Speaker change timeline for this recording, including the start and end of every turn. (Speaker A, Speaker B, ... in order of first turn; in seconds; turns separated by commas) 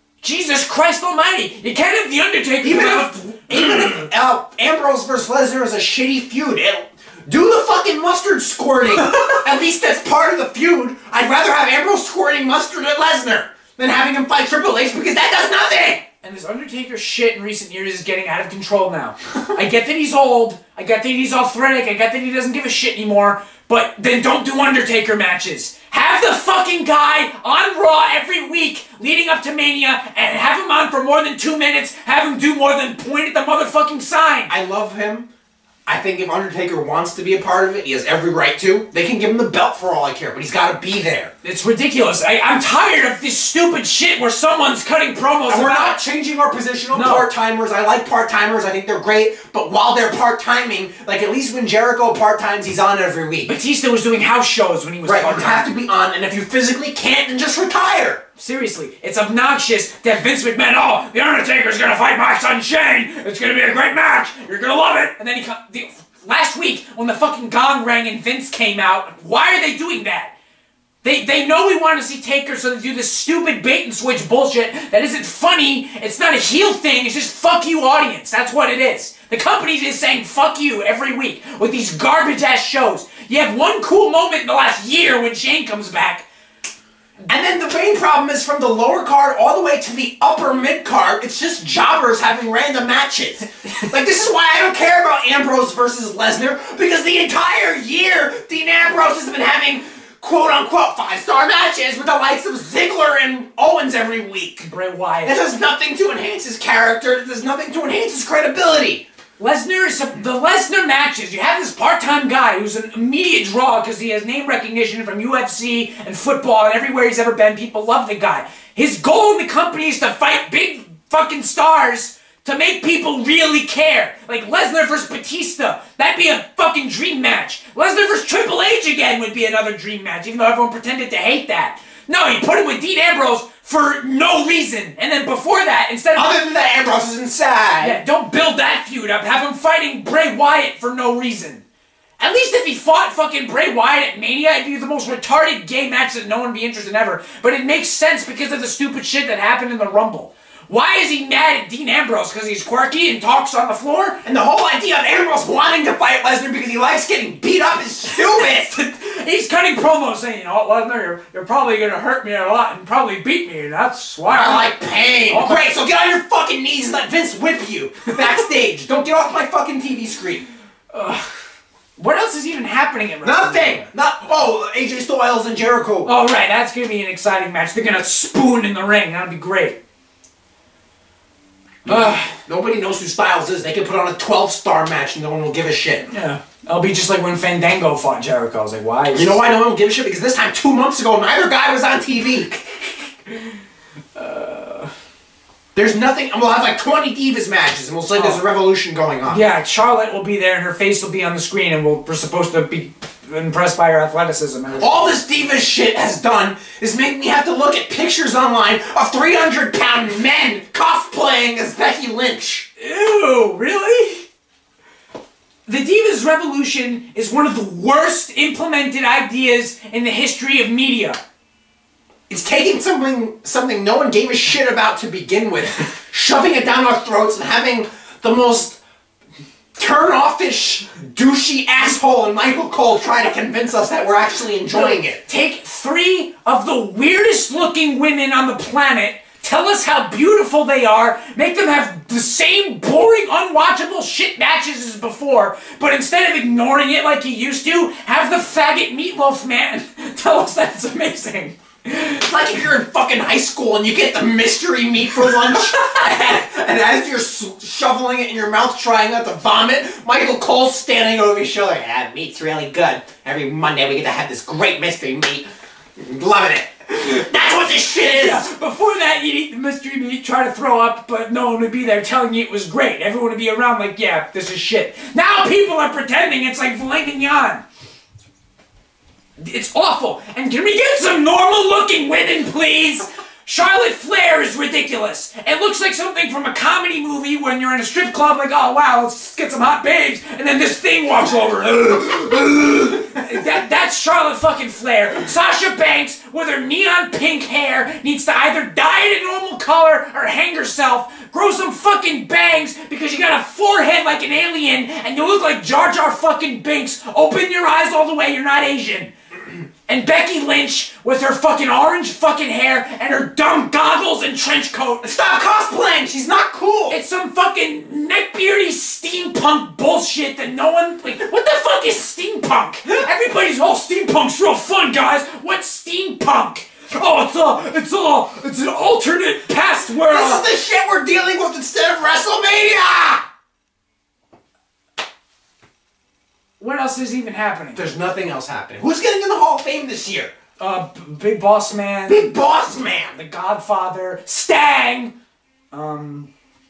Speaker A: 0.2-4.1, Speaker B: 2.6-16.0, Speaker A: 16.2-34.5, Speaker B: 34.5-35.3, Speaker B: 35.9-41.3, Speaker A: 41.4-46.0, Speaker B: 45.5-53.5, Speaker A: 46.9-47.3, Speaker A: 53.5-55.7, Speaker B: 55.0-58.2, Speaker A: 58.4-70.3, Speaker A: 71.0-86.2, Speaker B: 87.3-104.7, Speaker A: 104.6-105.4, Speaker B: 105.2-109.0, Speaker A: 109.4-136.3, Speaker B: 136.1-138.0, Speaker A: 137.8-141.6, Speaker A: 142.2-154.2, Speaker B: 154.2-158.8, Speaker A: 158.1-164.7, Speaker B: 164.3-170.4, Speaker A: 165.3-165.8, Speaker A: 170.9-171.3, Speaker A: 172.0-173.9, Speaker B: 173.2-176.1, Speaker A: 176.0-179.8, Speaker A: 181.8-182.3, Speaker B: 181.9-186.1, Speaker A: 186.1-189.4, Speaker B: 189.1-193.0, Speaker A: 194.1-194.9, Speaker B: 195.7-199.4, Speaker A: 198.1-198.4, Speaker A: 199.3-205.2, Speaker B: 204.8-212.7, Speaker A: 212.8-214.3, Speaker A: 215.7-221.2, Speaker B: 222.3-228.8, Speaker B: 229.8-235.2, Speaker A: 234.7-252.3, Speaker B: 252.2-265.4, Speaker B: 266.0-268.5, Speaker A: 268.1-277.6, Speaker A: 279.4-309.1, Speaker A: 309.9-315.1, Speaker B: 315.0-317.0, Speaker A: 316.9-330.4, Speaker B: 330.0-333.2, Speaker A: 336.6-337.8, Speaker B: 337.7-340.3, Speaker A: 340.6-342.3, Speaker B: 342.1-343.2, Speaker A: 343.1-345.1, Speaker A: 345.7-346.3